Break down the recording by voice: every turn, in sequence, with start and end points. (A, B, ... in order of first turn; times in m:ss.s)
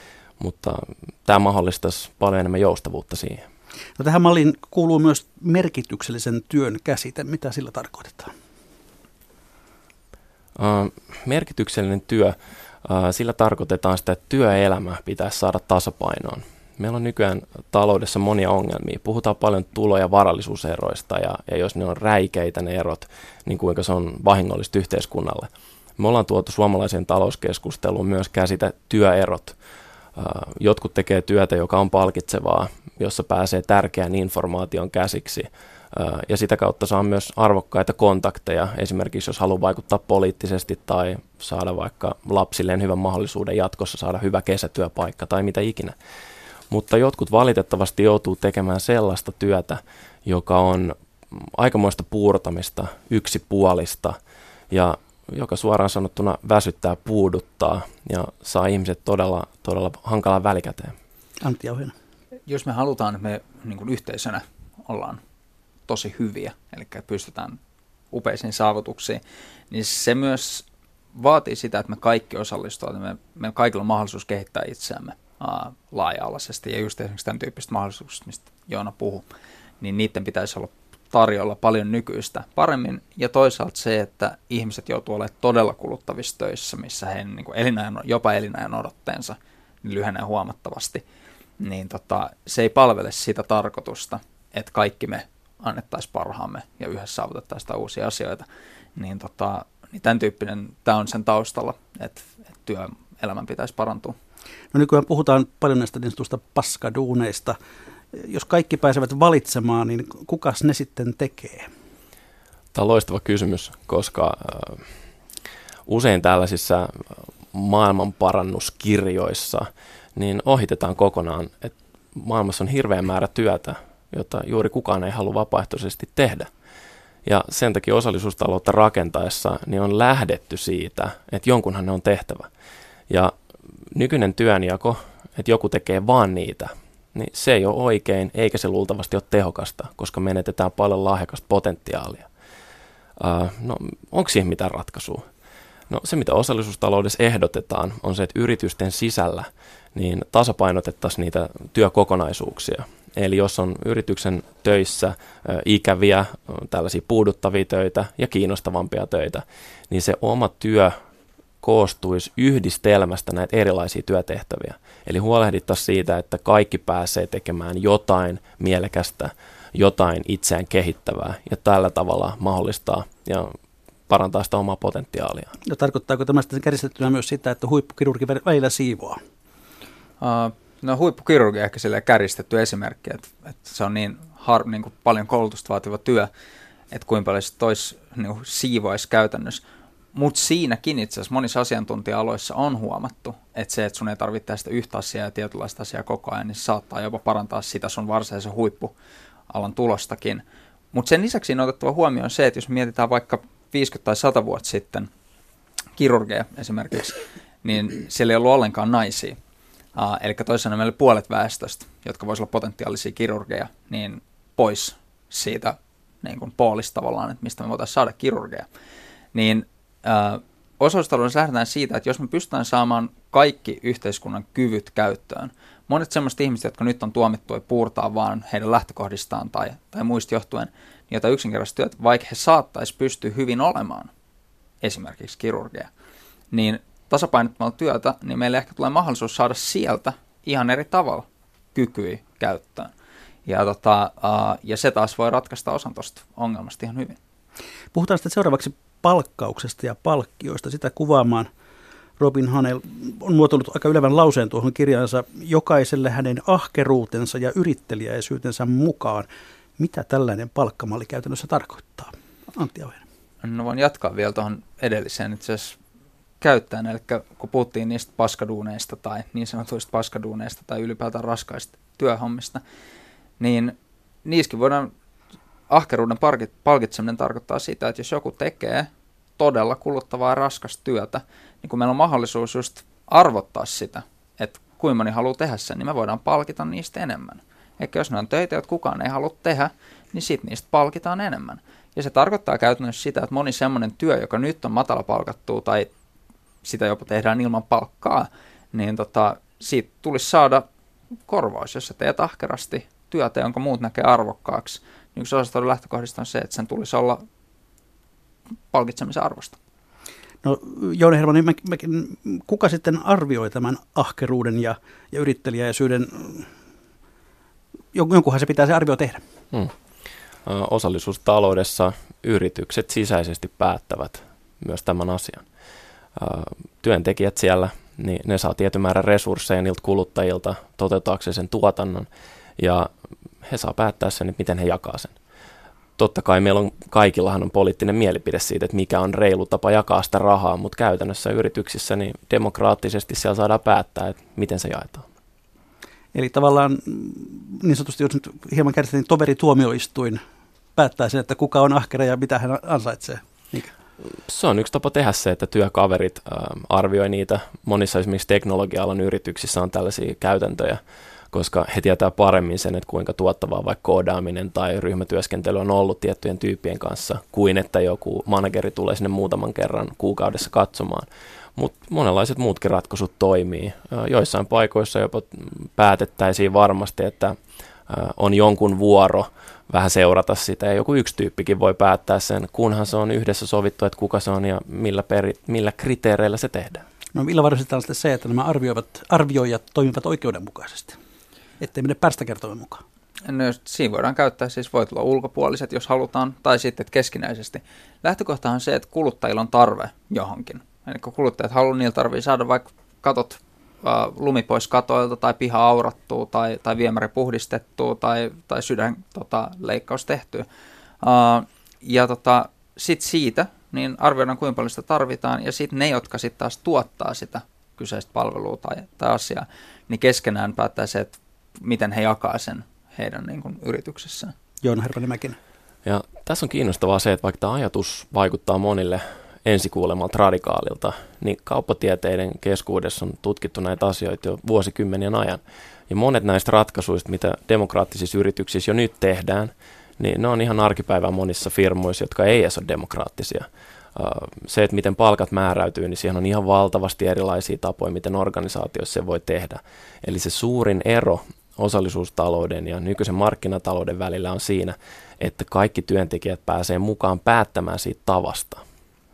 0:00.4-0:03.4 A
0:04.0-0:08.3 B
0:10.6-0:29.5 A
0:30.2-0:45.9 A
0:46.7-0:54.2 A
0:54.7-1:00.9 A
1:01.4-1:01.9 B
1:02.5-1:05.2 C
1:05.9-1:07.6 C
1:08.1-1:19.2 C
1:19.8-1:31.0 C
1:31.6-1:38.4 C
1:39.0-1:44.2 C
1:44.7-1:47.6 B
1:48.1-1:51.7 B
1:52.7-1:54.8 A
1:55.9-2:06.5 A
2:07.2-2:12.5 A
2:13.1-2:13.3 A
2:13.9-2:22.3 A
2:23.2-2:25.2 A
2:25.9-2:41.0 A
2:41.6-2:53.5 A
2:54.1-2:55.6 A
2:55.6-2:59.2 B
3:00.2-3:06.3 C
3:06.9-3:09.6 C
3:10.1-3:18.9 C
3:19.5-3:25.1 C
3:26.0-3:29.4 C
3:29.9-3:38.7 C
3:39.3-3:54.1 C
3:54.8-3:55.9 C
3:56.5-4:02.9 C
4:03.4-4:07.2 C
4:07.9-4:11.5 B
4:12.2-4:19.3 B
4:19.8-4:23.0 B
4:23.4-4:25.8 C
4:26.4-4:32.6 C
4:33.4-4:34.9 C
4:35.7-4:55.9 C
4:56.6-5:00.6 C
5:01.3-5:07.2 C
5:08.7-5:09.6 C
5:10.4-5:16.5 B
5:17.9-5:19.2 B
5:20.4-5:25.4 A
5:26.2-5:32.9 A
5:33.4-5:35.1 A
5:36.0-5:45.0 A
5:46.1-5:50.2 B
5:50.8-5:53.7 B
5:54.2-6:00.8 A
6:01.3-6:17.4 A
6:17.9-6:26.8 A
6:27.1-6:31.0 B
6:31.6-6:32.8 B
6:33.2-6:50.4 C
6:51.0-7:04.3 C
7:04.6-7:05.4 B
7:05.8-7:38.6 A